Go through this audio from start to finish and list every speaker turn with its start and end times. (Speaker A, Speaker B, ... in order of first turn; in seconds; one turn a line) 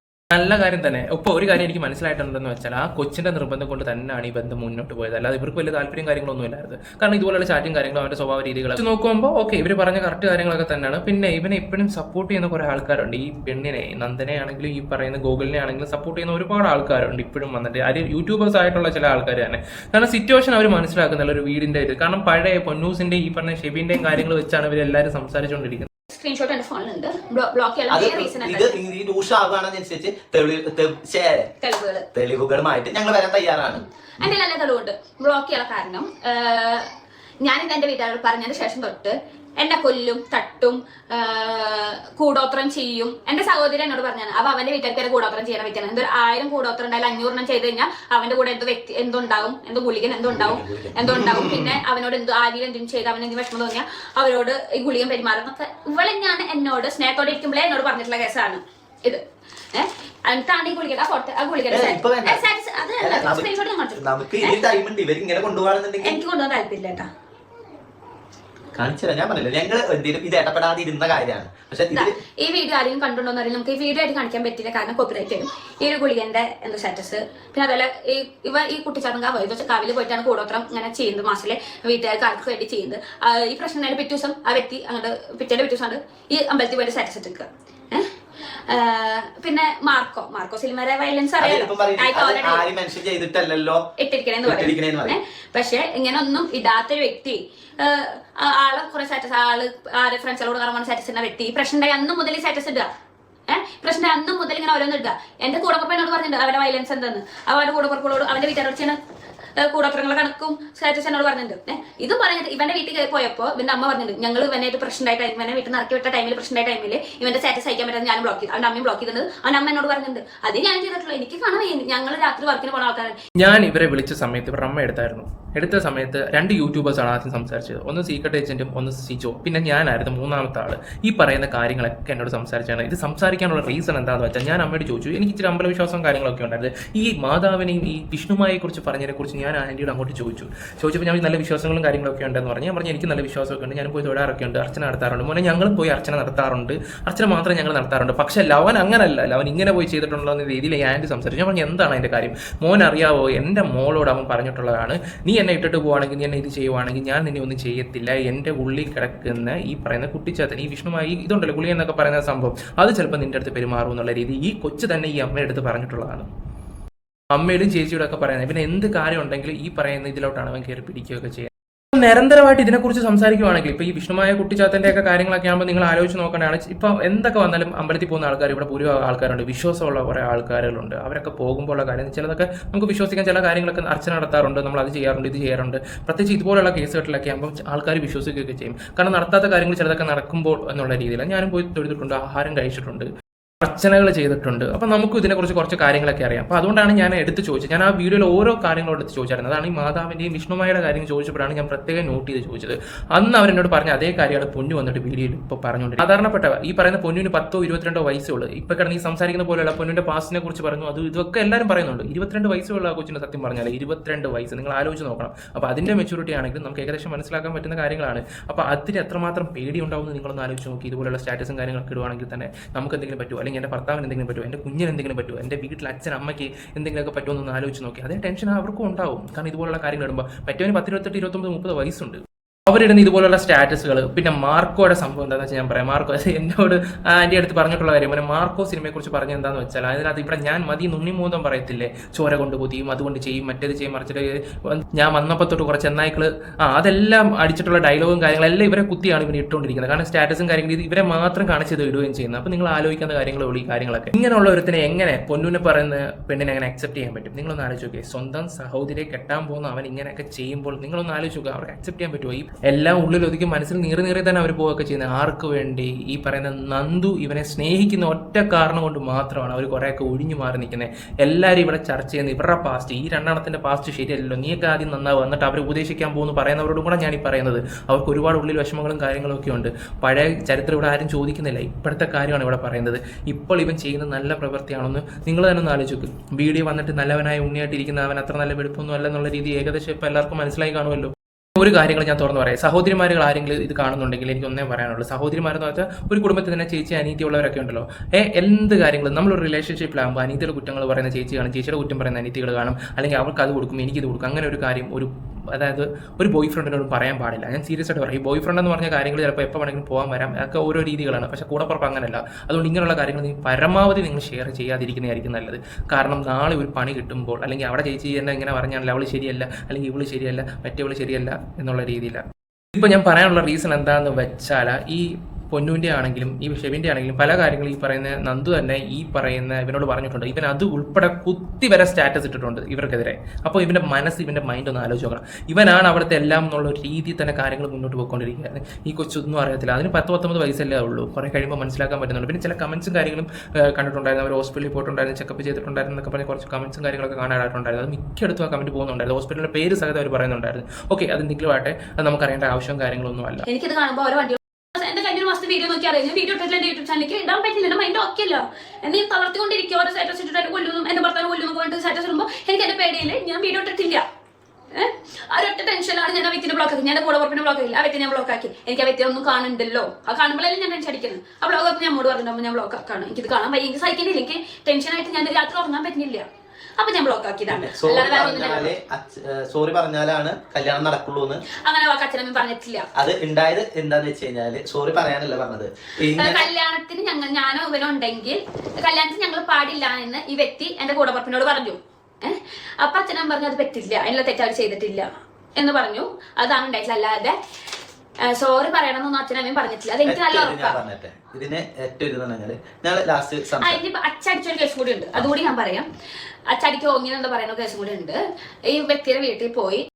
Speaker A: 0.3-25.9
Speaker B: 26.1-28.8
Speaker C: 27.9-31.5
Speaker B: 31.6-32.1
Speaker C: 32.1-33.8
Speaker B: 34.2-36.9
Speaker B: 37.4-59.2
Speaker C: 50.4-51.8
Speaker B: 59.7-64.6
Speaker C: 61.7-62.5
Speaker C: 63.0-66.2
Speaker B: 66.0-67.1
Speaker C: 68.8-72.2
Speaker B: 72.0-92.6
Speaker C: 91.4-93.8
Speaker B: 94.0-102.9
Speaker C: 94.4-95.2
Speaker B: 103.5-109.0
Speaker B: 109.6-123.2
Speaker A: 123.4-166.3
Speaker A: 167.3-193.1
Speaker A: 193.6-322.2
Speaker A: 322.8-353.4
Speaker B: 353.5-364.0
Speaker B: 364.7-376.2
Speaker B: 376.8-378.7
Speaker C: 377.5-381.4
Speaker B: 381.6-382.9
Speaker C: 382.9-386.5
Speaker B: 386.1-397.4
Speaker B: 398.2-400.8
Speaker C: 400.1-403.8
Speaker B: 403.6-405.9
Speaker B: 406.5-409.9